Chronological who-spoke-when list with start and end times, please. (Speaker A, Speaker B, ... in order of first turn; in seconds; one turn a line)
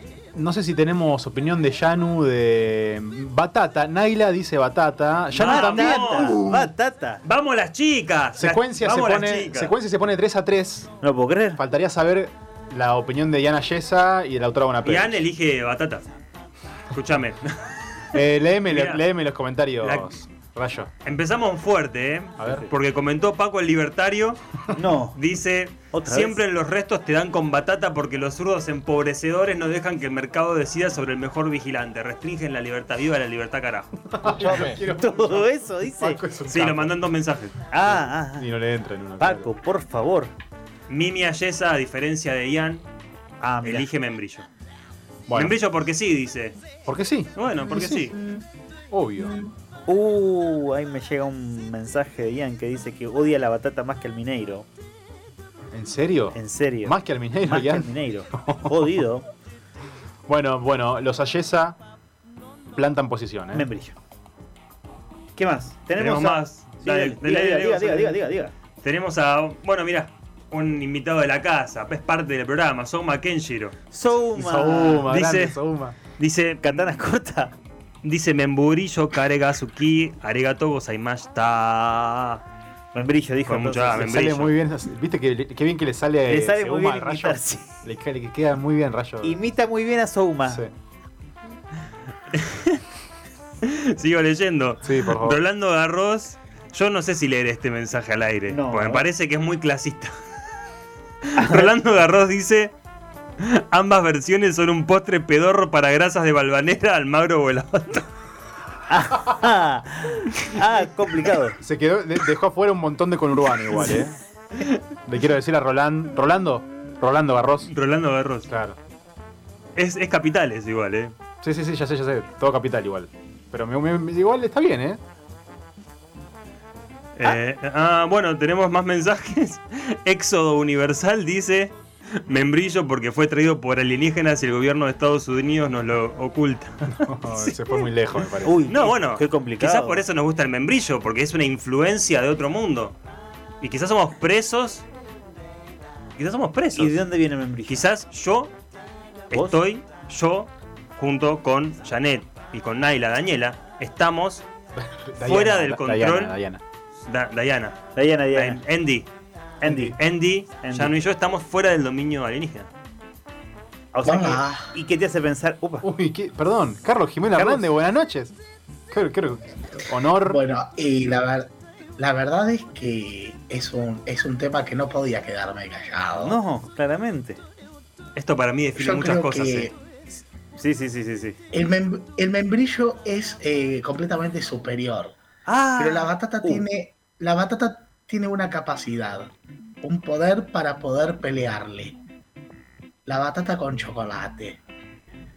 Speaker A: 0.3-6.7
Speaker B: 5.3-6.4
Speaker C: 5.3-7.2
Speaker B: 7.2-9.7
Speaker A: 8.3-10.9
Speaker C: 11.0-11.6
Speaker A: 11.6-15.2
Speaker B: 14.8-16.1
Speaker B: 16.9-17.4
Speaker A: 18.1-20.9
Speaker B: 18.7-19.0
Speaker B: 19.8-20.2
Speaker B: 21.0-24.4
Speaker A: 22.4-22.6
Speaker C: 24.7-25.2
Speaker B: 25.1-34.0
Speaker C: 25.9-26.4
Speaker A: 34.1-36.9
Speaker C: 34.3-36.2
Speaker B: 36.5-37.6
Speaker C: 37.7-38.5
Speaker A: 37.8-39.5
Speaker C: 39.2-40.3
Speaker B: 40.9-42.8
Speaker C: 43.4-43.9
Speaker B: 43.6-44.5
Speaker A: 45.3-45.6
Speaker B: 45.3-46.6
Speaker A: 46.8-48.1
Speaker B: 47.3-48.2
Speaker A: 48.9-49.3
Speaker C: 49.9-54.7
Speaker A: 55.7-58.9
Speaker C: 56.3-59.3
Speaker A: 60.3-61.8
Speaker A: 62.8-63.7
Speaker C: 63.5-63.9
Speaker C: 65.3-68.5
Speaker B: 66.0-68.2
Speaker B: 68.8-73.8
Speaker C: 73.9-75.1
Speaker A: 74.3-76.0
Speaker B: 75.1-75.6
Speaker B: 76.2-76.9
Speaker C: 76.6-77.5
Speaker B: 78.0-82.4
Speaker C: 82.9-84.3
Speaker B: 83.4-84.5
Speaker A: 83.9-89.4
Speaker C: 86.2-87.7
Speaker C: 89.2-90.6
Speaker A: 90.5-90.7
Speaker B: 92.3-92.8
Speaker B: 93.6-100.1
Speaker A: 94.8-95.4
Speaker C: 98.5-99.1
Speaker B: 101.2-102.7
Speaker C: 101.4-101.7
Speaker B: 103.4-108.1
Speaker C: 108.9-111.6
Speaker A: 111.6-114.2
Speaker A: 115.0-117.7
Speaker B: 117.7-118.5
Speaker A: 118.5-118.8
Speaker B: 119.8-121.1
Speaker A: 121.4-125.0
Speaker B: 127.2-131.7
Speaker B: 132.2-137.0
Speaker A: 137.0-138.6
Speaker C: 138.4-140.0
Speaker B: 138.7-142.9
Speaker B: 143.6-144.8
Speaker B: 146.2-147.1
Speaker C: 146.7-147.9
Speaker B: 147.7-148.5
Speaker B: 149.3-154.4
Speaker C: 149.3-149.6
Speaker A: 154.7-156.6
Speaker B: 155.2-156.3
Speaker B: 157.0-159.1
Speaker C: 157.9-158.6
Speaker C: 159.6-160.0
Speaker A: 159.6-160.0
Speaker B: 159.9-162.7
Speaker C: 160.6-160.9
Speaker C: 163.9-165.8
Speaker D: 164.0-164.7
Speaker A: 165.8-168.3
Speaker C: 167.3-167.7
Speaker A: 168.9-170.4
Speaker D: 170.2-176.4
Speaker C: 176.2-177.4
Speaker B: 178.2-179.7
Speaker D: 178.8-179.8
Speaker C: 180.6-181.4
Speaker D: 181.5-185.2
Speaker C: 185.5-186.6
Speaker D: 185.8-192.0
Speaker D: 193.1-194.6